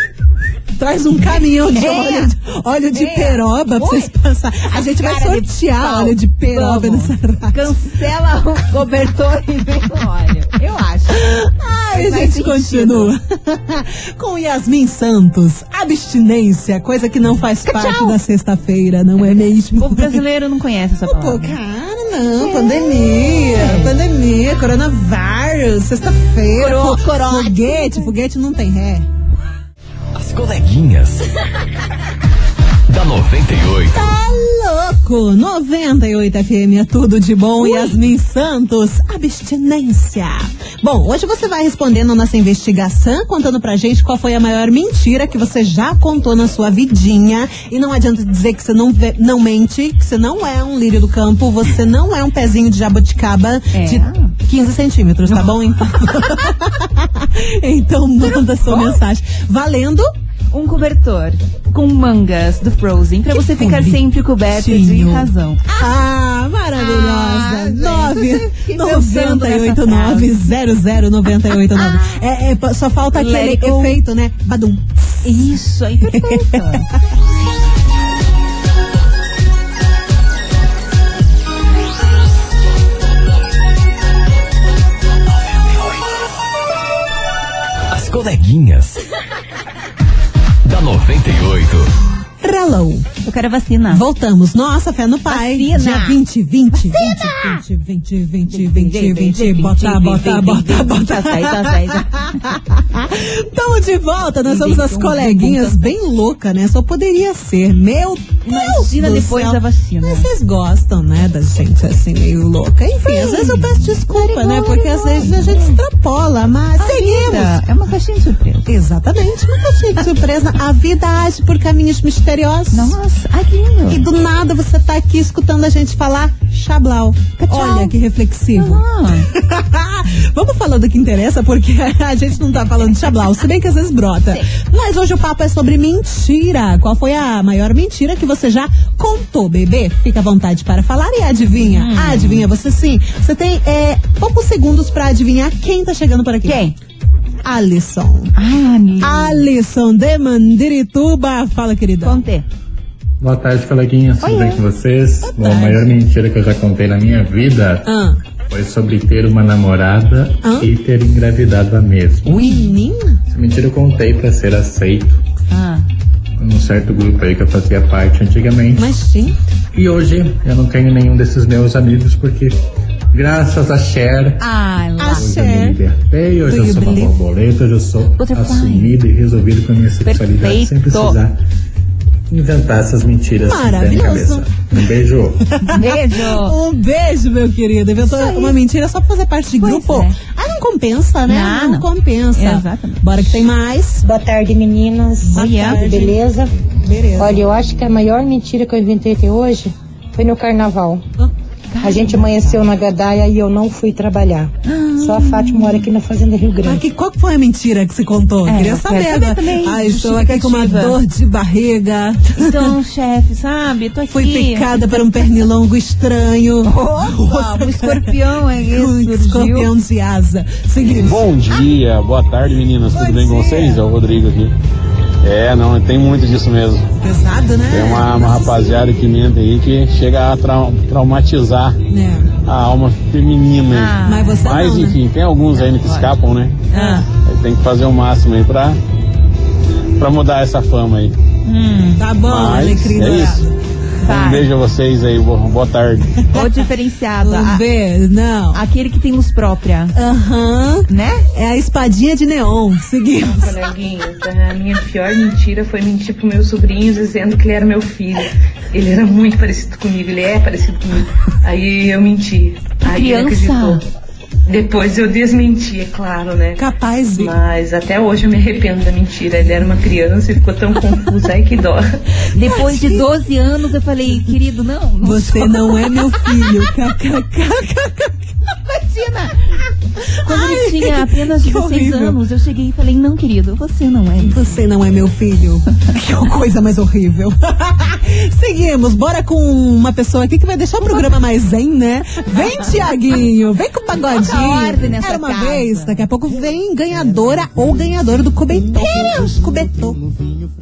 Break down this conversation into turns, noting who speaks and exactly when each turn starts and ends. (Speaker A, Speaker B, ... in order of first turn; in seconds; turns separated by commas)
Speaker A: 0.8-7.8, Speaker B: 1.2-2.3, Speaker B: 2.9-4.1, Speaker B: 4.7-11.4, Speaker A: 11.1-20.2, Speaker B: 11.9-13.1, Speaker B: 17.7-18.2, Speaker B: 19.7-21.6, Speaker A: 21.1-29.1, Speaker B: 22.4-23.9, Speaker B: 26.6-28.2, Speaker C: 30.1-31.2, Speaker C: 32.9-34.1, Speaker A: 33.9-60.1, Speaker B: 37.6-38.0, Speaker B: 53.7-54.3, Speaker B: 55.3-55.5, Speaker B: 58.2-59.0, Speaker B: 60.5-65.7, Speaker A: 63.3-75.5, Speaker B: 66.8-70.4, Speaker B: 71.7-72.2, Speaker B: 73.2-74.0, Speaker B: 75.2-76.9, Speaker A: 76.0-76.8, Speaker C: 87.9-89.0, Speaker C: 90.6-91.9, Speaker A: 92.4-93.1, Speaker B: 93.2-94.0, Speaker A: 93.9-117.6, Speaker B: 95.3-96.2, Speaker B: 96.7-97.6, Speaker B: 98.5-102.5, Speaker B: 104.5-105.9, Speaker B: 108.4-110.3, Speaker B: 113.0-115.8, Speaker B: 116.8-118.7, Speaker A: 118.7-123.0, Speaker B: 122.7-124.0, Speaker A: 123.9-146.6, Speaker B: 127.4-128.0, Speaker B: 128.5-129.3, Speaker B: 141.6-142.5, Speaker B: 146.4-146.8, Speaker A: 147.4-148.3, Speaker B: 148.3-149.5, Speaker A: 149.0-152.3, Speaker B: 152.0-152.4, Speaker D: 153.2-157.9, Speaker B: 154.2-154.6, Speaker B: 155.3-155.8, Speaker A: 157.8-158.2, Speaker D: 158.5-162.6, Speaker A: 160.4-160.7, Speaker A: 162.2-163.2, Speaker D: 163.3-165.1, Speaker B: 165.5-165.9, Speaker D: 166.4-169.0, Speaker A: 168.8-169.4, Speaker D: 169.8-172.6, Speaker D: 173.1-174.4, Speaker B: 174.4-175.3, Speaker A: 175.0-175.8, Speaker D: 175.2-181.4, Speaker A: 176.5-177.1, Speaker B: 178.2-178.9, Speaker B: 180.0-181.2, Speaker D: 182.3-185.4, Speaker A: 183.4-184.6, Speaker A: 185.5-194.1, Speaker B: 185.7-186.6, Speaker B: 188.0-188.6, Speaker B: 189.6-190.2, Speaker B: 191.3-193.4, Speaker E: 194.0-196.5, Speaker A: 195.2-196.2, Speaker B: 195.3-196.0, Speaker A: 196.8-197.4, Speaker E: 197.2-201.0, Speaker B: 201.7-202.6, Speaker E: 201.8-206.8, Speaker B: 204.7-205.9, Speaker A: 206.6-212.8, Speaker B: 208.5-211.0, Speaker B: 212.4-215.4, Speaker A: 214.1-221.3, Speaker B: 216.7-219.7, Speaker F: 221.0-224.5, Speaker A: 222.9-223.8, Speaker F: 225.2-226.9, Speaker A: 227.0-228.8, Speaker F: 227.7-231.8, Speaker A: 231.9-232.3, Speaker F: 232.5-238.8, Speaker B: 233.7-234.5, Speaker A: 234.1-235.0, Speaker B: 235.6-236.2, Speaker B: 236.7-237.0, Speaker A: 236.7-237.1, Speaker F: 240.0-241.1, Speaker B: 241.4-242.1, Speaker A: 242.0-243.5, Speaker F: 242.3-243.4, Speaker B: 243.1-243.4, Speaker B: 244.0-244.5, Speaker F: 244.1-246.2, Speaker B: 246.3-247.6, Speaker A: 246.3-246.6, Speaker A: 247.2-248.6, Speaker B: 248.5-249.9, Speaker A: 249.9-253.6, Speaker B: 250.9-251.3, Speaker G: 253.2-263.8, Speaker B: 262.8-263.8, Speaker G: 264.5-266.6, Speaker A: 266.6-267.4, Speaker G: 267.1-271.9, Speaker B: 272.3-276.7, Speaker A: 272.4-273.1, Speaker A: 275.0-278.3, Speaker B: 278.5-279.4, Speaker A: 280.1-282.2, Speaker B: 280.2-284.5, Speaker A: 284.2-300.0, Speaker B: 292.3-292.7, Speaker B: 294.1-296.0